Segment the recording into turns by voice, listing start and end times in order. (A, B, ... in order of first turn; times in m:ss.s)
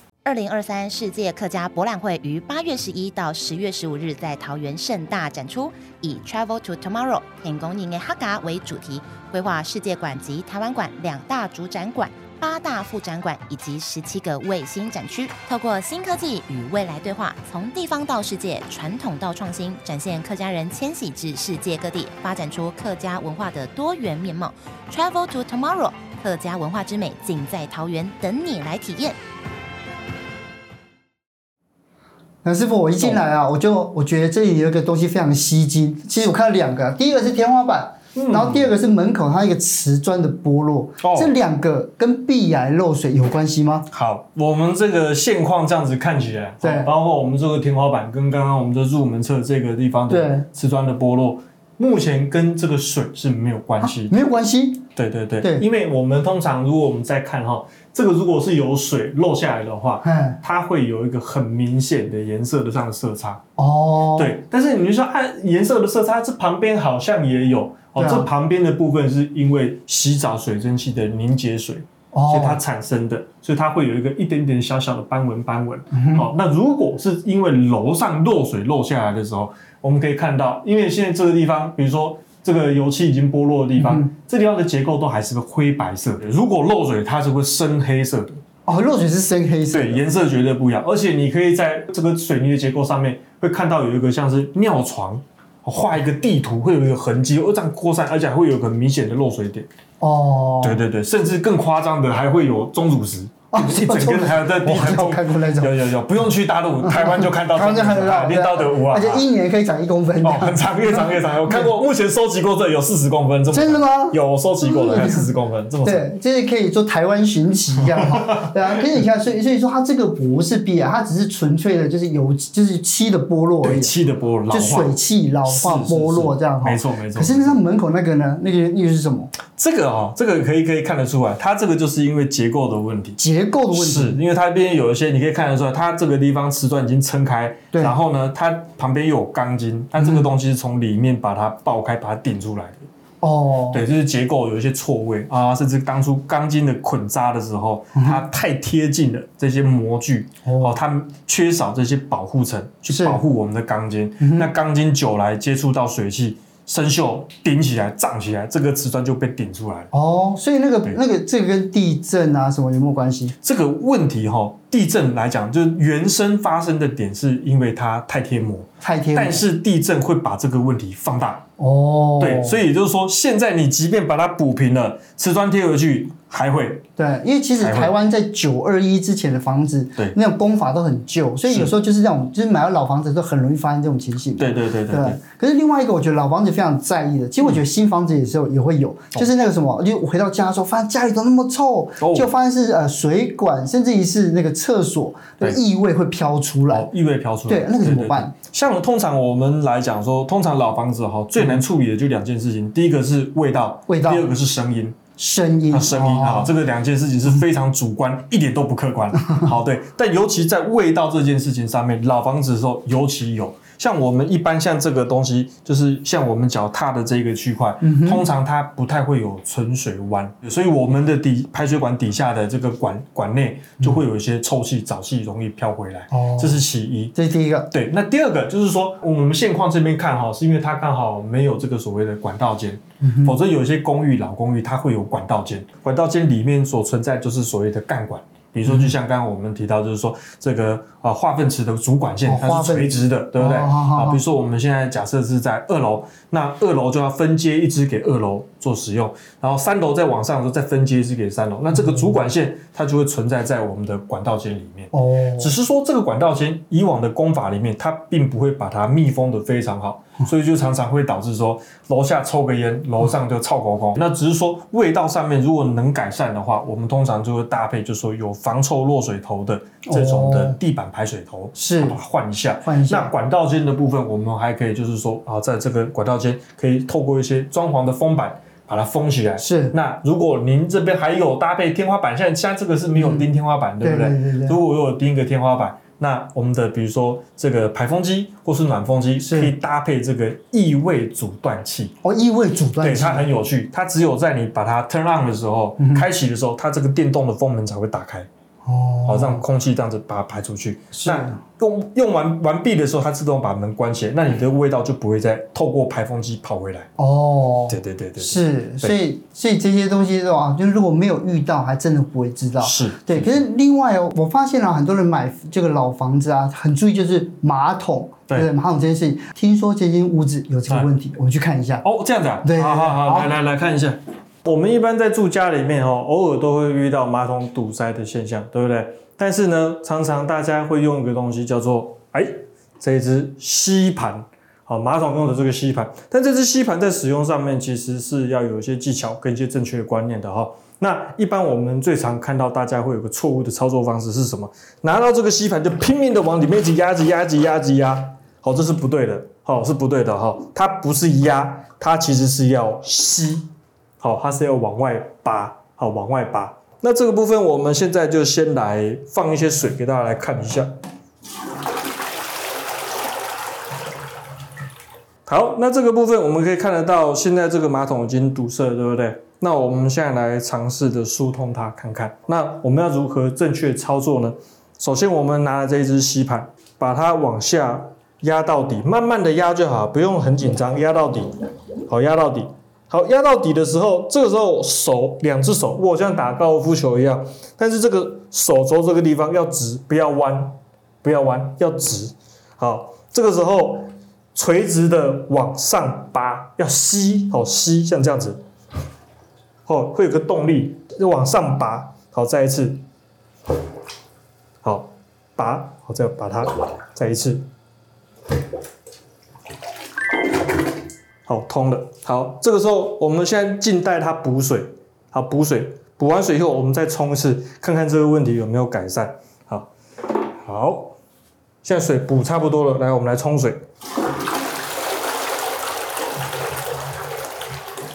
0:00.2-0:29.2 A
0:32.4-0:43.9 B
0:38.1-0:38.7 C
0:41.0-0:41.3 C
0:43.9-0:54.1 C
0:46.6-0:46.9 B
0:50.1-0:50.4 B
0:53.8-0:54.9 B
0:55.0-1:03.4 C
1:00.0-1:00.4 B
1:03.6-1:04.4 B
1:04.2-1:28.4 C
1:08.0-1:08.3 B
1:12.1-1:12.6 B
1:15.9-1:16.2 B
1:23.8-1:24.1 B
1:28.6-1:30.0 B
1:29.7-1:39.7 C
1:40.0-1:40.8 B
1:40.6-1:49.3 C
1:43.5-1:45.8 B
1:46.8-1:51.7 B
1:50.2-1:56.0 C
1:53.5-1:55.3 B
1:55.8-2:03.9 B
1:57.9-1:58.7 C
2:03.6-2:07.6 C
2:04.5-2:09.3 B
2:09.5-2:13.2 C
2:13.2-2:14.2 B
2:13.7-2:22.9 C
2:20.0-2:20.2 B
2:23.2-2:23.8 B
2:23.7-2:39.9 C
2:27.9-2:28.2 B
2:30.4-2:30.8 B
2:32.9-2:33.2 B
2:34.2-2:34.5 B
2:39.9-2:43.3 B
2:43.4-2:51.4 C
2:48.8-2:49.4 B
2:51.6-2:52.6 B
2:52.2-2:56.8 C
2:57.0-3:16.9 B
2:57.6-2:57.9 C
3:04.4-3:05.2 C
3:12.0-3:12.3 C
3:16.7-3:25.0 C
3:17.5-3:18.3 B
3:23.9-3:24.3 B
3:25.2-3:26.5 B
3:25.7-3:47.1 C
3:37.8-3:38.2 B
3:46.1-3:46.6 B
3:47.2-3:47.7 B
3:47.7-4:51.9 C
3:53.0-3:53.4 B
4:02.2-4:04.2 B
4:14.9-4:15.5 B
4:29.8-4:30.6 B
4:31.6-4:32.0 B
4:32.6-4:33.1 B
4:39.4-4:39.7 B
4:43.0-4:43.2 B
4:43.8-4:44.6 B
4:49.2-4:49.5 B
4:52.0-4:53.3 B
4:52.8-4:58.3 C
4:55.8-4:56.0 B
4:58.6-4:59.4 B
4:59.0-5:06.9 C
5:00.9-5:01.4 B
5:07.0-5:21.8 B
5:07.7-5:09.0 C
5:12.6-5:13.4 C
5:21.8-6:00.8 C
5:22.4-5:23.3 B
6:05.2-6:21.3 C
6:21.9-6:38.4 C
6:39.6-6:42.8 C
6:44.6-6:47.5 C
6:51.2-7:01.0 C
7:01.6-7:03.6 C